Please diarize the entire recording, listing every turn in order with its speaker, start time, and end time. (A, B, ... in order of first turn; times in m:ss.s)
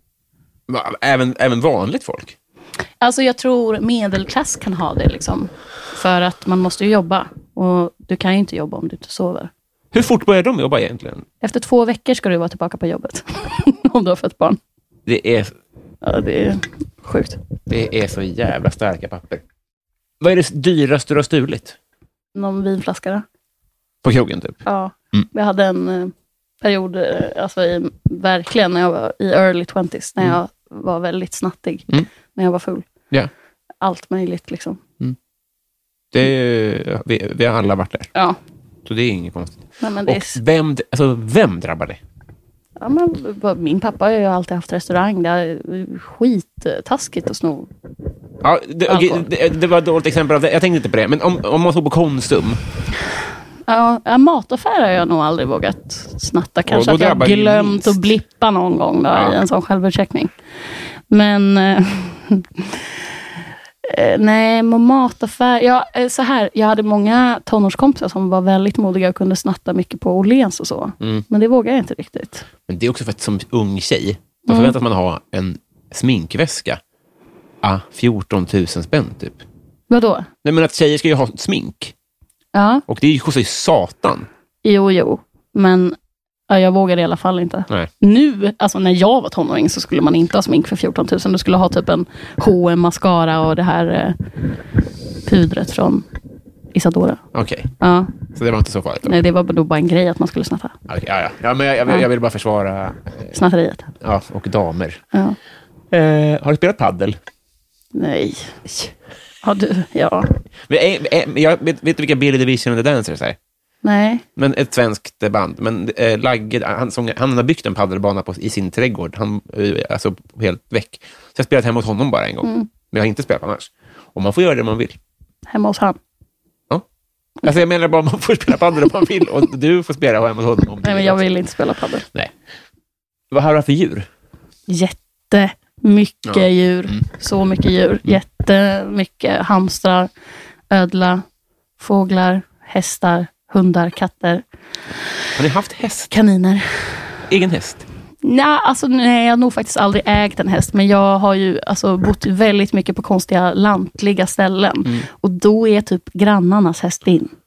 0:00.7-0:02.4 A
0:03.0-0:09.5 B
0:09.9-0:11.3 A
0:11.4-0:14.6 B
0:15.1-0:15.5 A
0:16.0-0:17.4 B
0:17.7-0:19.4 A
0:20.2-0:21.8 A
0:22.4-0:23.2 B
0:24.0-0:25.3 A
0:24.6-0:32.9 B
0:33.8-0:34.8 B
0:36.1-0:38.1 A
0:38.9-0:42.0 A
0:39.8-0:40.4 B
0:42.8-0:47.7 B
0:48.4-0:52.6 A
0:48.9-0:49.3 B
0:53.7-1:00.3 B
0:56.7-0:58.0 A
0:59.1-0:59.4 A
1:01.1-1:03.1 B
1:03.8-1:12.5 B
1:12.7-1:16.8 A
1:14.5-1:14.8 B
1:17.6-1:19.4 A
1:19.9-1:20.3 B
1:20.4-1:21.9 A
1:22.5-1:22.8 B
1:22.9-1:24.3 A
1:24.6-1:26.0 B
1:26.5-1:34.2 B
1:35.2-1:36.1 B
1:36.7-1:37.2 B
1:37.3-1:37.7 A
1:37.8-1:38.1 B
1:38.3-1:39.2 A
1:39.0-1:40.8 B
1:40.9-1:43.3 A
1:43.3-1:43.9 B
1:44.0-1:45.0 A
1:45.9-1:47.2 A
1:47.9-1:48.9 B
1:49.4-1:50.3 B
1:50.7-1:53.4 A
1:53.8-1:54.2 B
1:54.4-2:05.0 A
2:02.4-2:02.7 B
2:05.5-2:06.0 B
2:07.4-2:11.2 A
2:10.8-2:12.1 B
2:13.3-2:14.1 A
2:14.7-2:20.1 B
2:16.2-2:17.0 A
2:20.7-2:21.2 B
2:21.8-2:24.4 B
2:25.4-2:26.1 A
2:26.1-2:27.1 B
2:27.3-2:27.9 A
2:28.2-2:37.3 B